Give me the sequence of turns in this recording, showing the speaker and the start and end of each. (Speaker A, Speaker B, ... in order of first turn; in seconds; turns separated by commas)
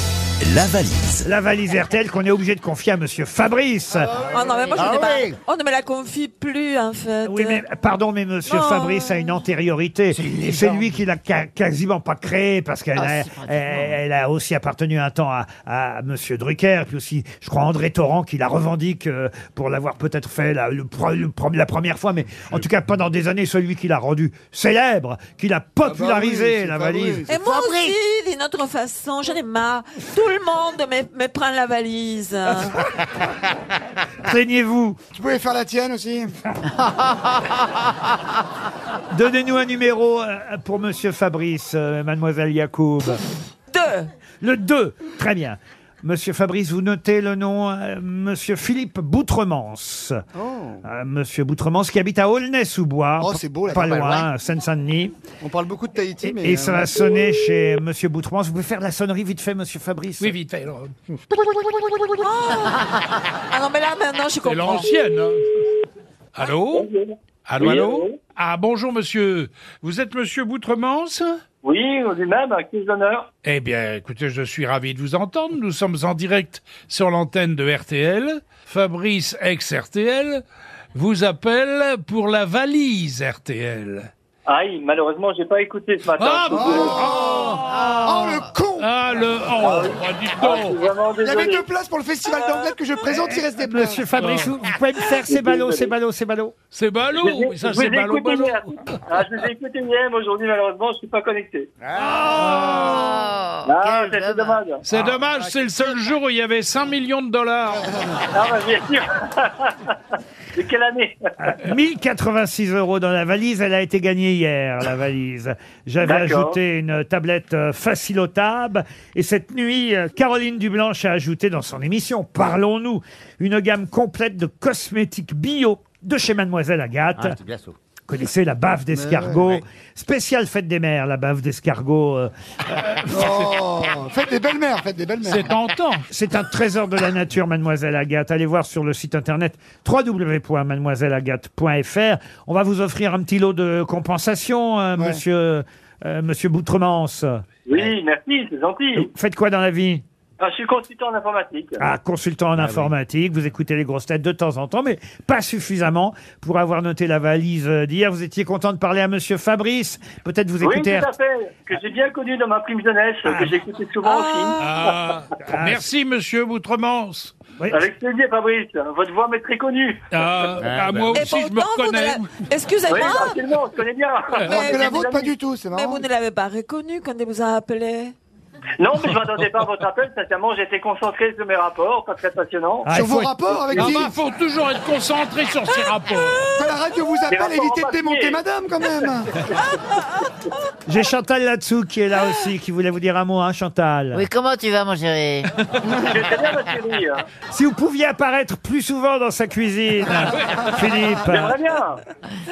Speaker A: 0.5-1.0, Speaker B: 1.2-4.1, Speaker C: 4.0-5.4, Speaker D: 4.3-7.6, Speaker B: 7.2-27.3, Speaker D: 8.4-9.3, Speaker C: 10.1-10.4, Speaker C: 12.9-13.9, Speaker E: 25.9-27.3, Speaker D: 27.3-32.8, Speaker C: 27.4-27.9, Speaker B: 34.2-35.0, Speaker E: 35.1-36.3, Speaker B: 39.1-43.2, Speaker D: 43.7-44.1, Speaker B: 44.4-50.2, Speaker E: 50.3-50.8, Speaker B: 50.8-55.1, Speaker E: 53.2-54.3, Speaker E: 55.4-57.0, Speaker B: 56.2-60.3, Speaker A: 60.2-61.0, Speaker D: 62.1-64.9, Speaker A: 64.4-65.5, Speaker A: 66.3-66.9, Speaker F: 66.7-68.2, Speaker A: 67.5-71.4, Speaker F: 71.6-73.3, Speaker A: 73.4-80.4, Speaker A: 80.9-84.1, Speaker F: 84.5-87.0, Speaker A: 86.1-87.8, Speaker E: 86.5-87.5, Speaker E: 88.0-88.9, Speaker A: 88.8-90.8, Speaker F: 89.6-91.7, Speaker E: 91.2-94.0, Speaker B: 93.1-96.5, Speaker A: 94.2-94.5, Speaker F: 95.3-95.9, Speaker A: 96.7-99.0, Speaker F: 97.2-101.7, Speaker C: 102.0-104.6, Speaker A: 102.1-103.3, Speaker F: 103.6-104.8, Speaker A: 104.8-108.2, Speaker F: 108.3-109.9, Speaker F: 110.5-111.2, Speaker B: 111.4-127.4, Speaker F: 116.0-116.6, Speaker C: 127.2-127.7, Speaker B: 128.1-133.2, Speaker E: 128.9-129.4, Speaker E: 133.1-135.5, Speaker A: 133.2-133.5, Speaker A: 135.2-136.1, Speaker B: 136.1-147.4, Speaker E: 145.0-145.2, Speaker F: 147.7-149.1, Speaker B: 148.9-150.0, Speaker F: 150.4-151.8, Speaker B: 151.8-161.1, Speaker C: 152.6-152.9, Speaker F: 160.6-164.6, Speaker B: 163.2-163.6, Speaker D: 164.0-164.7, Speaker A: 164.6-167.4, Speaker B: 165.5-165.8, Speaker B: 167.6-167.8, Speaker F: 167.7-170.0, Speaker A: 170.1-172.3, Speaker C: 170.6-171.2, Speaker D: 171.1-173.4, Speaker F: 172.9-175.3, Speaker D: 174.4-175.1, Speaker E: 174.5-176.0, Speaker D: 175.7-178.1, Speaker F: 178.8-182.9, Speaker B: 182.8-183.3, Speaker E: 182.9-184.1, Speaker A: 183.7-186.5, Speaker E: 186.5-189.3, Speaker F: 187.3-188.4, Speaker B: 190.9-194.2, Speaker C: 194.1-195.5, Speaker F: 195.8-197.2, Speaker B: 197.5-201.6, Speaker F: 201.3-202.0